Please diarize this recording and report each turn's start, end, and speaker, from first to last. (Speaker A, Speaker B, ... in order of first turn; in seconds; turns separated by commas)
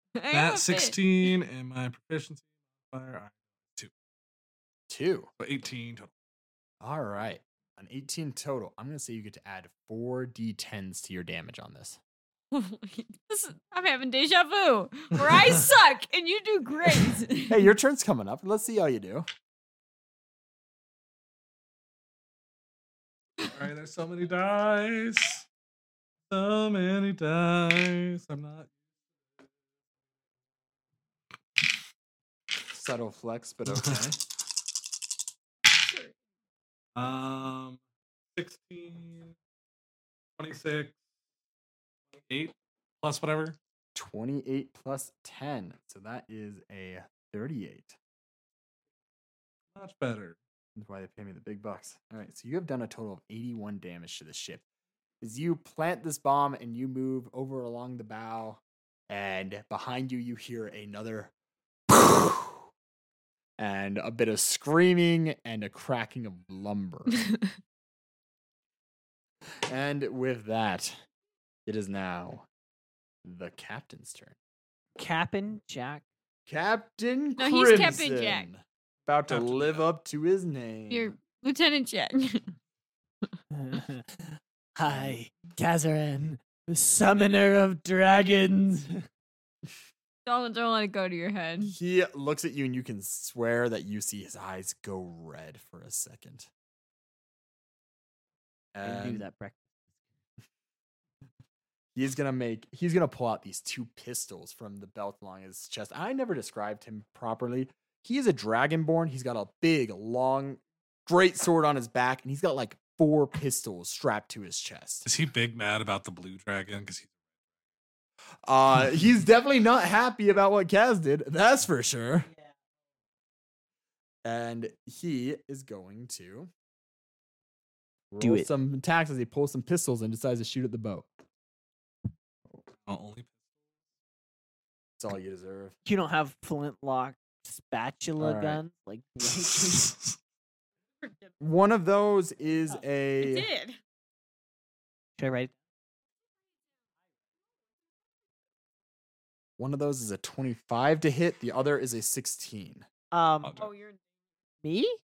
Speaker A: 0.1-1.3, Speaker B: 0.3-3.9, Speaker C: 4.9-5.3, Speaker B: 5.4-6.1, Speaker C: 6.8-12.0, Speaker A: 12.5-17.6, Speaker C: 17.5-19.3, Speaker B: 23.4-25.4, Speaker B: 26.3-28.7, Speaker C: 32.7-34.2, Speaker B: 33.7-34.0, Speaker A: 35.7-36.1, Speaker B: 37.0-37.8, Speaker B: 38.4-39.4, Speaker B: 40.4-41.0, Speaker B: 42.1-43.6, Speaker C: 44.0-48.0, Speaker B: 49.7-50.4, Speaker C: 50.8-54.6, Speaker C: 55.2-61.3, Speaker C: 61.9-62.6, Speaker C: 63.6-67.2, Speaker C: 69.7-71.0, Speaker C: 71.7-72.5, Speaker C: 73.2-74.4, Speaker D: 75.0-76.0, Speaker C: 76.5-81.2, Speaker A: 77.4-78.5, Speaker B: 79.3-79.8, Speaker A: 80.9-82.5, Speaker D: 83.5-89.0, Speaker C: 84.9-85.2, Speaker A: 90.3-91.7, Speaker C: 91.6-96.5, Speaker C: 98.7-99.2, Speaker D: 98.8-99.7, Speaker C: 102.0-115.1, Speaker B: 115.0-117.1, Speaker C: 118.5-122.3, Speaker C: 124.2-126.5, Speaker C: 128.1-131.1, Speaker D: 128.2-128.5, Speaker B: 132.9-133.3, Speaker C: 135.0-135.8, Speaker D: 135.8-140.0, Speaker C: 138.2-138.6, Speaker A: 141.0-141.3, Speaker C: 141.4-143.5, Speaker A: 143.2-143.8, Speaker D: 145.2-145.5, Speaker C: 149.6-152.9, Speaker D: 153.1-153.5, Speaker B: 153.4-153.7, Speaker A: 153.6-154.0, Speaker D: 154.6-155.0